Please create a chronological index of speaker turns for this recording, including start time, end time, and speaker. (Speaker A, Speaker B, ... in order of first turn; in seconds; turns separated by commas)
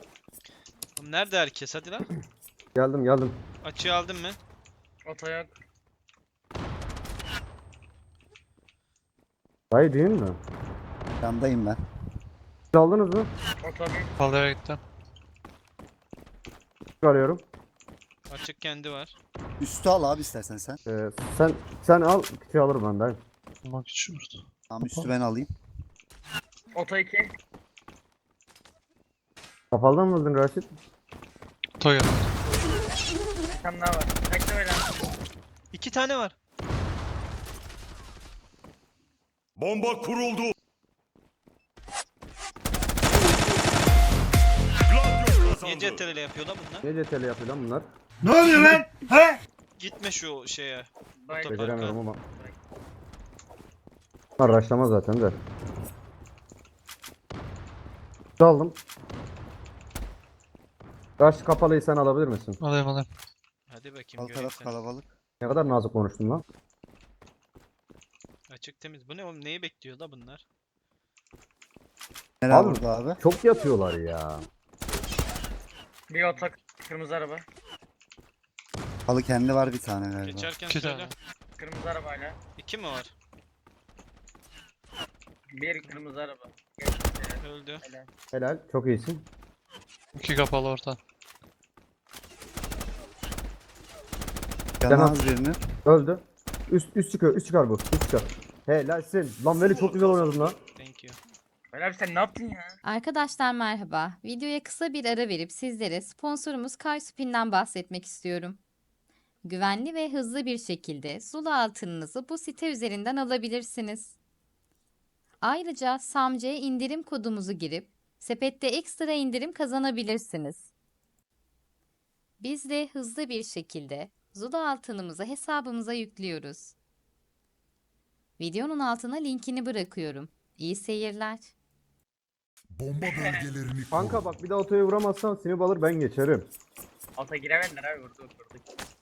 Speaker A: 1.0-2.1, Speaker B: 2.8-3.4, Speaker A: 3.6-4.4, Speaker C: 5.1-5.5, Speaker B: 9.7-10.4, Speaker D: 11.2-11.8, Speaker B: 12.7-13.3, Speaker C: 13.6-14.1, Speaker E: 14.2-14.8, Speaker B: 17.0-17.4, Speaker A: 18.3-19.2, Speaker D: 19.6-20.8, Speaker B: 20.9-23.2, Speaker E: 23.6-25.1, Speaker D: 24.7-25.5, Speaker C: 26.8-27.3, Speaker B: 29.7-30.7, Speaker E: 31.8-32.3, Speaker C: 33.6-34.9, Speaker A: 35.7-36.4, Speaker F: 39.6-40.5, Speaker F: 44.9-46.0, Speaker A: 45.6-46.9, Speaker B: 46.8-47.8, Speaker A: 49.8-52.0, Speaker C: 51.2-52.6, Speaker B: 51.5-52.2, Speaker B: 54.4-55.4, Speaker B: 58.4-58.8, Speaker B: 61.2-62.6, Speaker E: 62.6-63.1, Speaker A: 63.7-64.9, Speaker D: 64.2-65.1, Speaker B: 65.4-66.4, Speaker A: 68.5-70.4, Speaker D: 72.4-73.2, Speaker B: 72.5-74.5, Speaker C: 76.1-77.5, Speaker D: 79.1-80.5, Speaker A: 80.2-81.1, Speaker E: 80.7-81.1, Speaker C: 81.6-82.4, Speaker A: 82.6-83.1, Speaker C: 85.5-88.1, Speaker A: 87.4-87.8, Speaker B: 88.3-89.2, Speaker E: 90.1-91.0, Speaker D: 94.8-95.6, Speaker B: 94.9-95.2, Speaker B: 95.8-100.6, Speaker F: 99.6-100.6, Speaker A: 100.8-101.2, Speaker C: 101.7-102.8, Speaker G: 102.9-108.6, Speaker G: 109.5-114.1, Speaker G: 115.5-120.7, Speaker G: 122.4-126.7, Speaker G: 128.4-131.5, Speaker E: 132.8-134.2, Speaker C: 133.1-133.5, Speaker B: 133.9-136.5, Speaker C: 137.2-138.6